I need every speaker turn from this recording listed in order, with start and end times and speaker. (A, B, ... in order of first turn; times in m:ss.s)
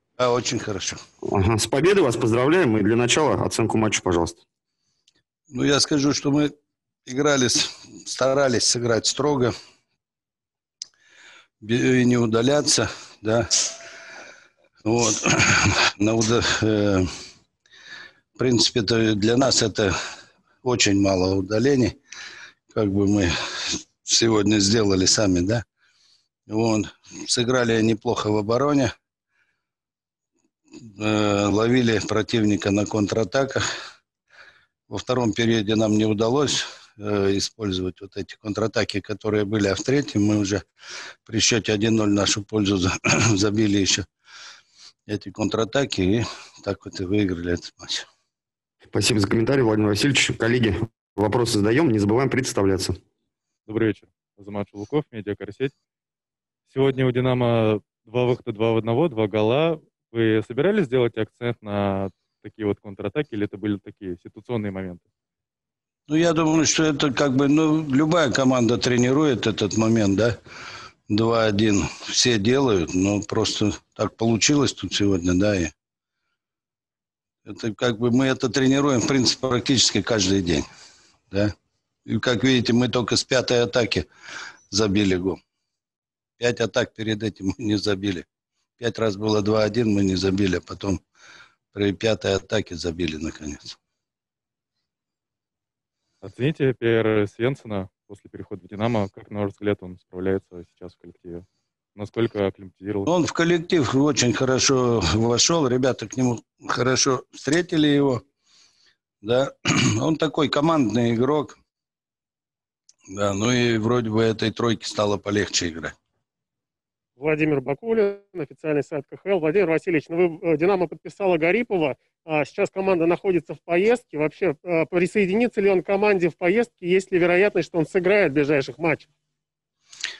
0:00.2-0:01.0 A
0:01.2-0:04.4 B
0:05.5-0:06.5 A
0:07.0-0:09.5 A
0:11.6-0:13.7 A
0:14.8-0:17.1 A
0:18.4-0:19.9 A
0:20.6-0:22.0 A
0:22.7-0:25.6 A
0:26.5-0:28.9 A
0:30.8-0:33.6 A
0:34.9-0:40.6 A
0:41.2-0:44.0 A
0:45.1-0:48.0 A
0:48.9-0:53.0 B
0:53.7-0:55.7 C
0:56.7-1:05.0 C
1:06.1-1:10.4 A
1:11.1-1:15.7 A
1:17.4-1:20.7 A
1:22.0-1:24.1 A
1:24.7-1:25.4 A
1:26.4-1:28.2 A
1:28.8-1:31.0 A
1:31.7-1:33.8 A
1:36.2-1:43.1 C
1:43.1-1:48.2 A
1:49.2-1:51.6 A
1:53.1-1:55.9 A
1:57.2-2:09.1 D